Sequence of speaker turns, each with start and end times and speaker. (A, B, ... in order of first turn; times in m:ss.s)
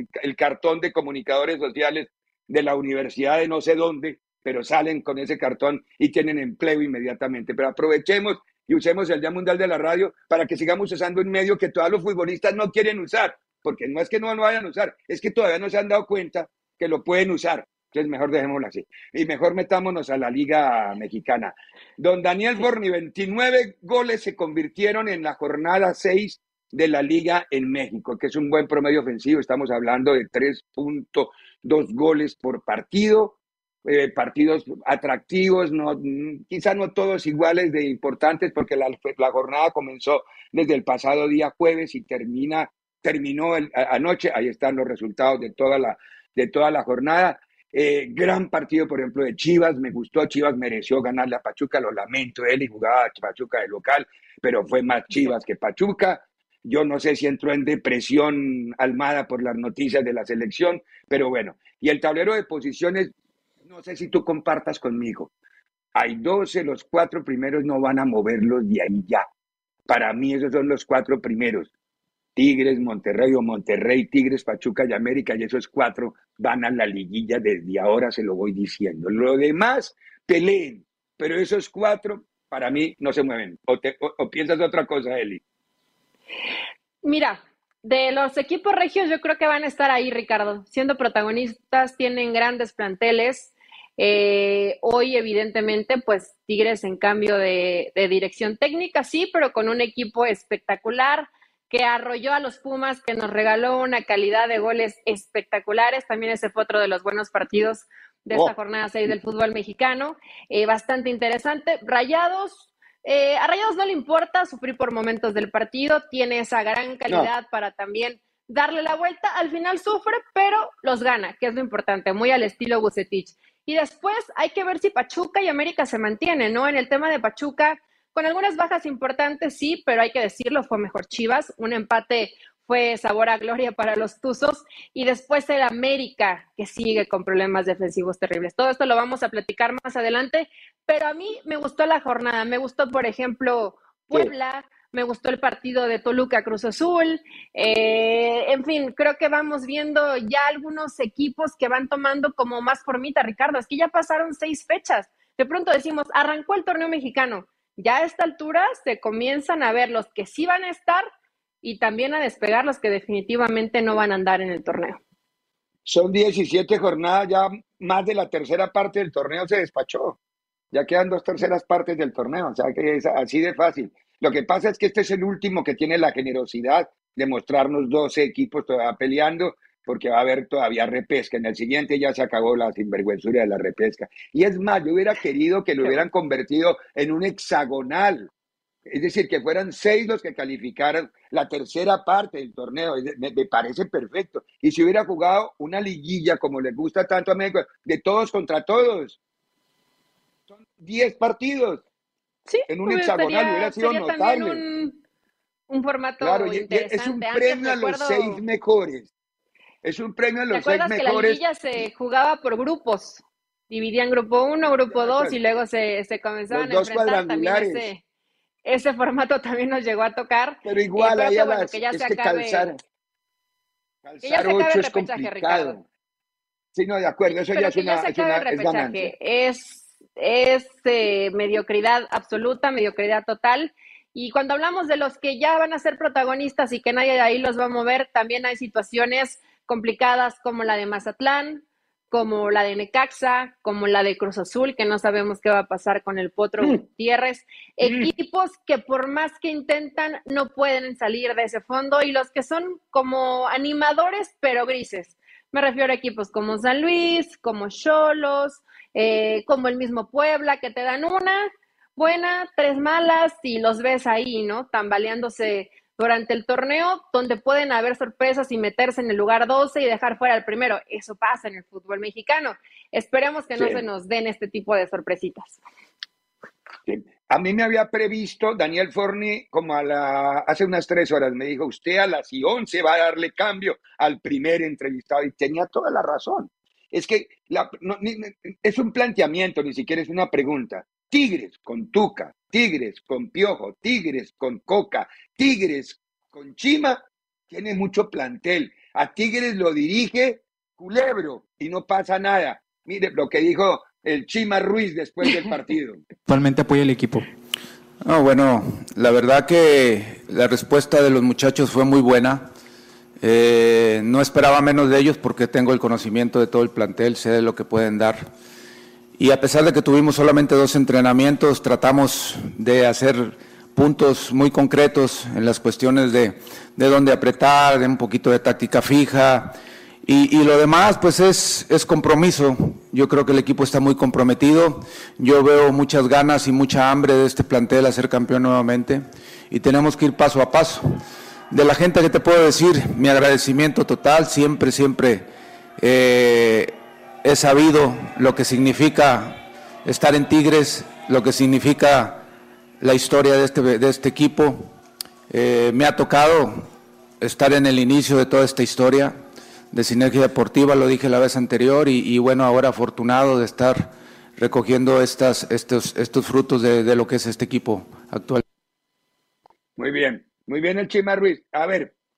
0:00.2-1:03.1 A
1:03.6-1:05.3 A
1:05.9-1:09.3 A
1:09.9-1:11.7 A
1:12.4-1:25.4 A
1:27.0-2:41.1 B
2:41.6-2:45.0 B
2:45.8-2:50.2 A
2:50.7-3:08.3 A
3:08.9-3:19.2 A
3:20.5-3:21.8 A
3:22.5-3:25.0 B
3:22.7-3:24.6 A
3:25.7-3:28.4 B
3:26.2-3:29.1 A
3:29.8-3:31.4 A
3:30.5-3:38.0 B
3:34.9-3:35.4 A
3:36.5-3:37.9 A
3:38.6-3:42.7 B
3:40.6-3:42.8 A
3:44.0-3:45.8 A
3:44.2-3:45.8 B
3:46.7-3:49.1 A
3:47.5-4:35.6 B
4:07.8-4:08.1 A
4:33.6-4:33.8 A
4:36.9-5:06.0 A
5:08.0-5:12.5 C
5:13.2-5:18.3 C
5:19.2-5:41.0 C
5:41.5-5:45.2 C
5:45.8-5:52.2 C
5:52.8-5:54.7 C
5:55.3-5:56.7 C
5:57.2-5:59.2 C
5:59.7-6:08.4 C
6:09.8-6:11.9 A